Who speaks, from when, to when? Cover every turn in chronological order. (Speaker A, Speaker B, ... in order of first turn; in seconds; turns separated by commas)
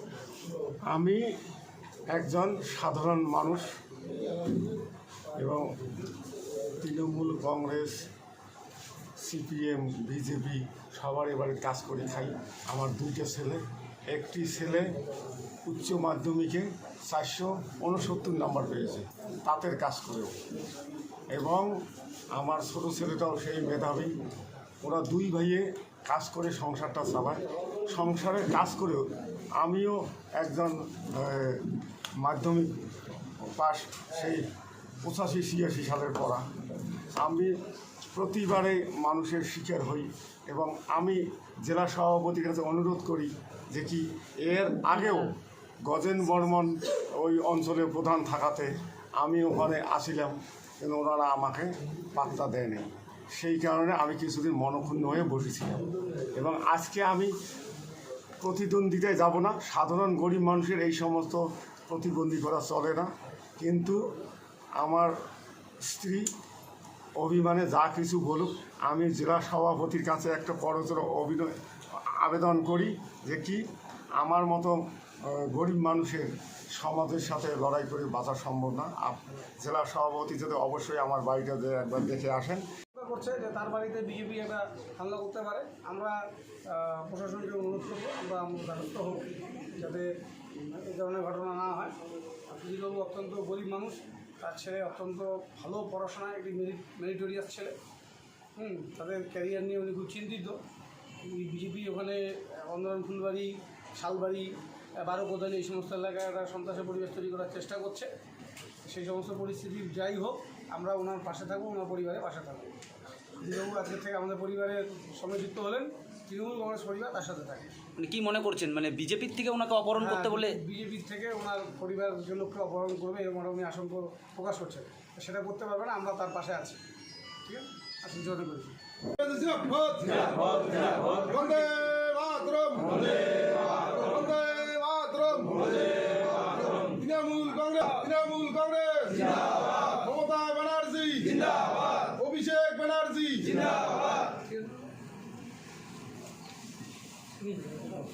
Speaker A: 0.9-1.2, Speaker A: 2.1-3.7, Speaker A: 5.4-5.7, Speaker A: 6.8-8.1, Speaker A: 9.2-14.9, Speaker A: 15.7-20.4, Speaker A: 21.3-21.7, Speaker A: 22.3-24.1, Speaker A: 24.8-32.8, Speaker A: 33.4-34.5, Speaker A: 35.0-36.5, Speaker A: 37.2-37.6, Speaker A: 38.1-57.3, Speaker A: 58.4-64.0, Speaker A: 64.8-65.1, Speaker A: 65.8-66.3, Speaker A: 67.2-73.7, Speaker A: 74.2-82.7, Speaker B: 83.0-86.2, Speaker B: 86.7-90.1, Speaker B: 90.7-92.0, Speaker B: 92.5-97.8, Speaker B: 98.6-100.6, Speaker B: 101.2-108.1, Speaker B: 108.9-112.7, Speaker B: 113.4-117.7, Speaker C: 118.0-120.6, Speaker B: 120.0-126.8, Speaker B: 127.5-128.8, Speaker D: 129.2-144.1, Speaker B: 147.4-147.9